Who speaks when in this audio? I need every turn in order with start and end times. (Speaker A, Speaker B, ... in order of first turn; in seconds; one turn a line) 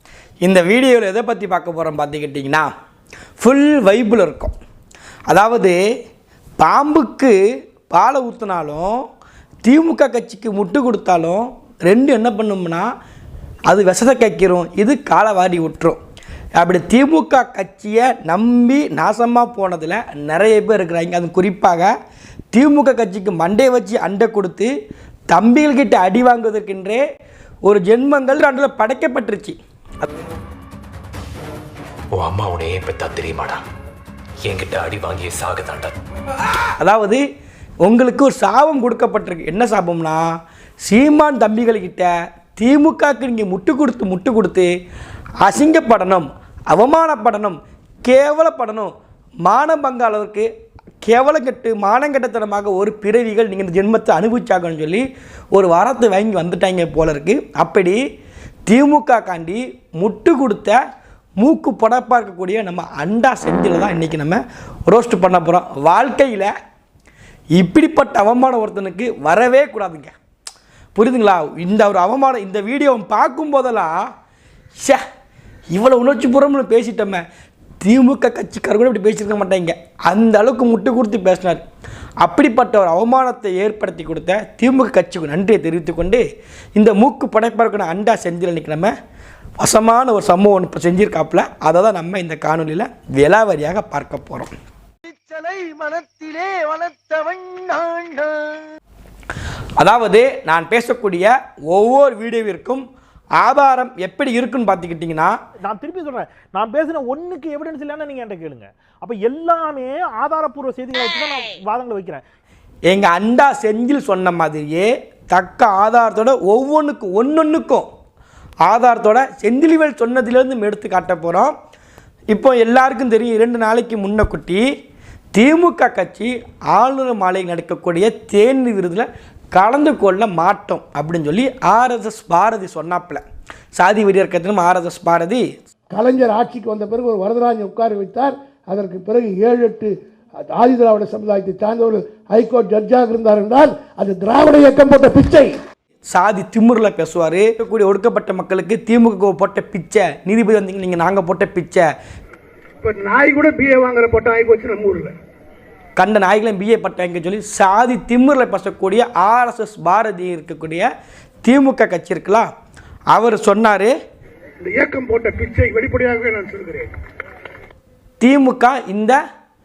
Speaker A: 0.4-2.7
Speaker A: 3.4-4.5
Speaker A: 5.3-5.8
Speaker A: 6.6-7.4
Speaker A: 7.9-9.0
Speaker A: 9.6-12.9
Speaker A: 13.7-16.0
Speaker A: 16.6-21.9
Speaker A: 22.5-24.7
Speaker A: 25.3-27.0
Speaker A: 27.6-29.6
Speaker B: 32.1-33.6
Speaker B: 34.4-36.0
Speaker A: 36.8-37.2
Speaker A: 37.8-40.3
Speaker A: 40.9-44.7
Speaker A: 45.4-48.9
Speaker A: 49.5-50.5
Speaker A: 51.0-58.0
Speaker A: 58.7-60.8
Speaker A: 61.4-66.5
Speaker A: 67.6-70.1
Speaker A: 71.0-74.0
Speaker A: 75.7-77.2
Speaker A: 77.8-81.6
Speaker A: 82.2-86.2
Speaker A: 86.8-88.9
Speaker A: 89.6-94.5
Speaker A: 99.8-102.8
Speaker A: 103.4-105.3
Speaker C: 105.6-112.2
Speaker A: 112.9-117.9
Speaker A: 118.7-121.5
Speaker A: 122.3-124.6
Speaker A: 125.3-133.2
Speaker A: 133.8-135.4
Speaker D: 135.9-139.9
Speaker D: 140.5-145.6
Speaker A: 146.1-151.8
Speaker E: 152.8-155.2
Speaker A: 156.0-160.9
Speaker A: 161.4-162.5
Speaker A: 163.1-163.9
Speaker E: 164.6-166.9
Speaker A: 168.2-169.2